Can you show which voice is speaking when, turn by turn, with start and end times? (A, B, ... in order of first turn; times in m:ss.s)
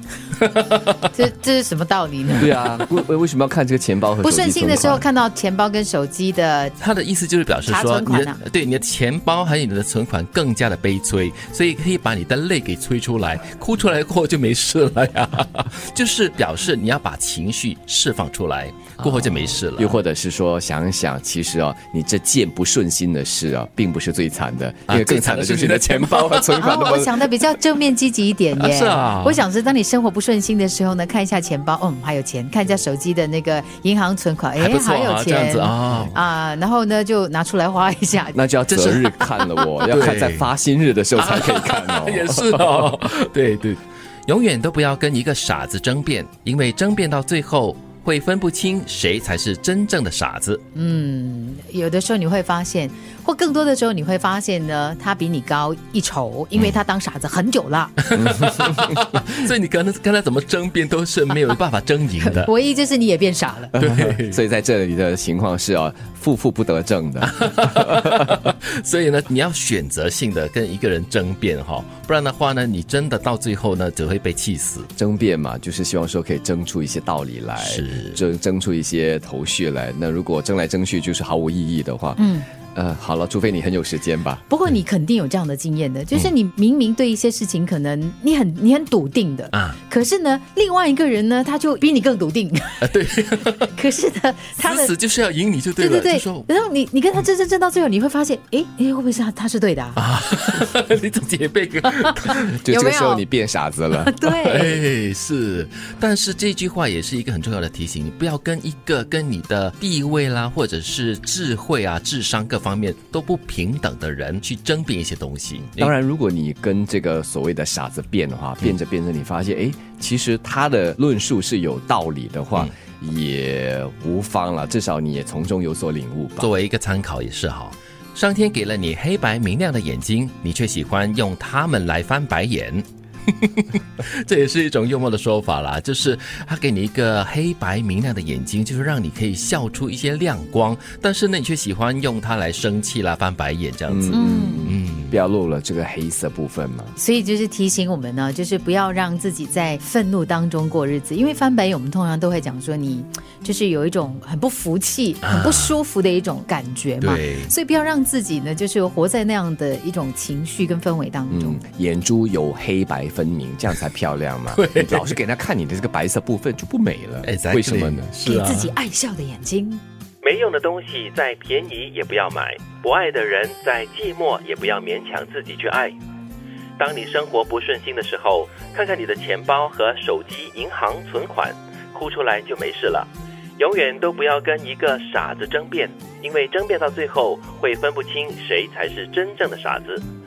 0:00.4-0:01.1 A
0:01.1-0:02.6 B
0:02.4-0:05.0 C
0:04.2-0:06.8 B
0:06.8-0:20.0 A
0:07.6-0:08.4 B
0:19.0-0:27.3 C
0:24.9-0:27.0 A
0:26.6-0:38.4 B
0:28.6-0:29.4 A
0:34.6-0:36.2 A
0:38.3-0:42.7 C
0:38.8-0:39.0 A
0:39.8-0:40.5 A
0:41.2-0:50.6 A
0:50.7-0:57.9 B
0:58.0-1:02.5 A
1:02.2-1:03.7 B
1:03.7-1:04.4 A
1:03.7-1:07.7 C
1:07.2-1:14.9 A
1:15.0-1:22.2 C
1:17.6-1:18.2 A
1:22.2-1:22.5 B
1:22.7-1:24.4 C
1:24.5-1:33.0 B
1:29.5-1:29.8 A
1:32.8-1:33.7 A
1:33.7-1:34.9 B
1:34.6-1:36.5 A
1:35.8-1:40.0 B
1:40.0-1:42.6 A
1:42.2-1:43.2 B
1:42.5-1:44.1 C
1:43.9-1:44.8 B
1:44.2-1:55.9 A
1:55.8-2:06.5 C
2:06.4-2:25.2 A
2:23.9-2:27.0 C
2:24.1-2:24.7 B
2:27.0-2:41.6 B
2:35.2-2:35.7 A
2:37.0-2:37.5 A
2:41.3-2:48.1 C
2:44.5-2:45.1 A
2:47.2-2:48.7 A
2:48.2-2:49.8 B
2:50.2-2:56.0 A
2:56.8-3:10.0 A